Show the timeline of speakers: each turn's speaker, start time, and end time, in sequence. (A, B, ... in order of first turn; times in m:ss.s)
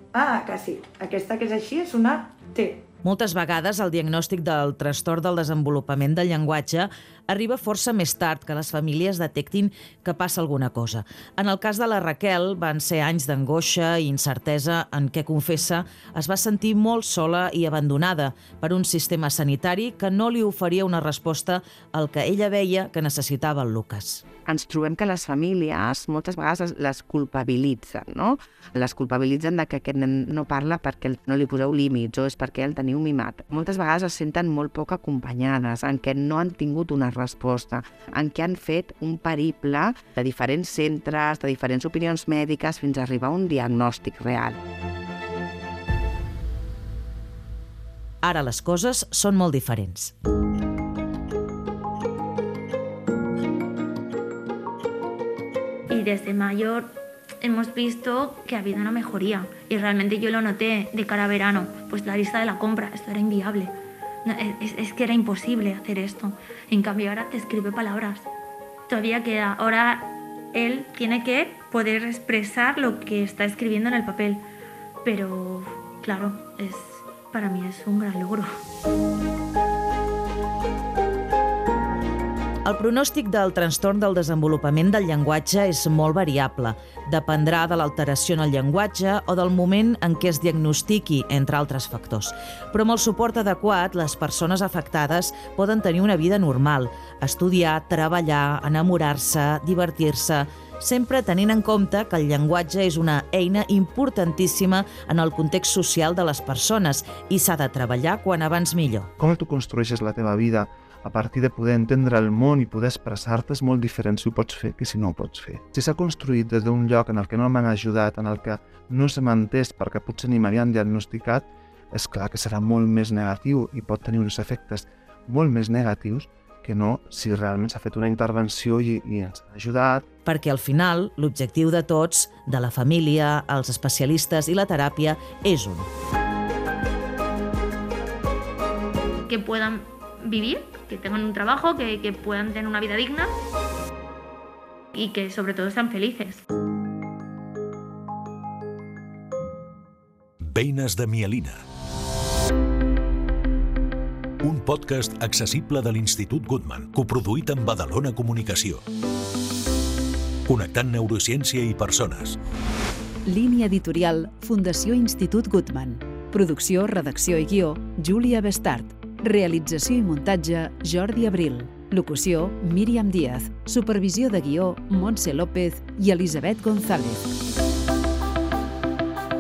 0:00.1-0:02.8 A
0:03.0-0:24.2 B
0:24.4-0:44.6 C
0:48.2-0:50.1 B
0:55.9-1:08.3 D
1:08.9-1:14.4 D
1:15.0-1:18.5 D
1:22.6-1:49.1 B
1:49.2-2:10.0 E
2:10.2-2:15.9 B
2:19.3-2:23.3 D
2:24.9-2:26.4 D
2:30.4-2:31.6 F
2:34.4-2:38.8 F
2:40.5-2:42.4 F
2:43.2-2:57.2 G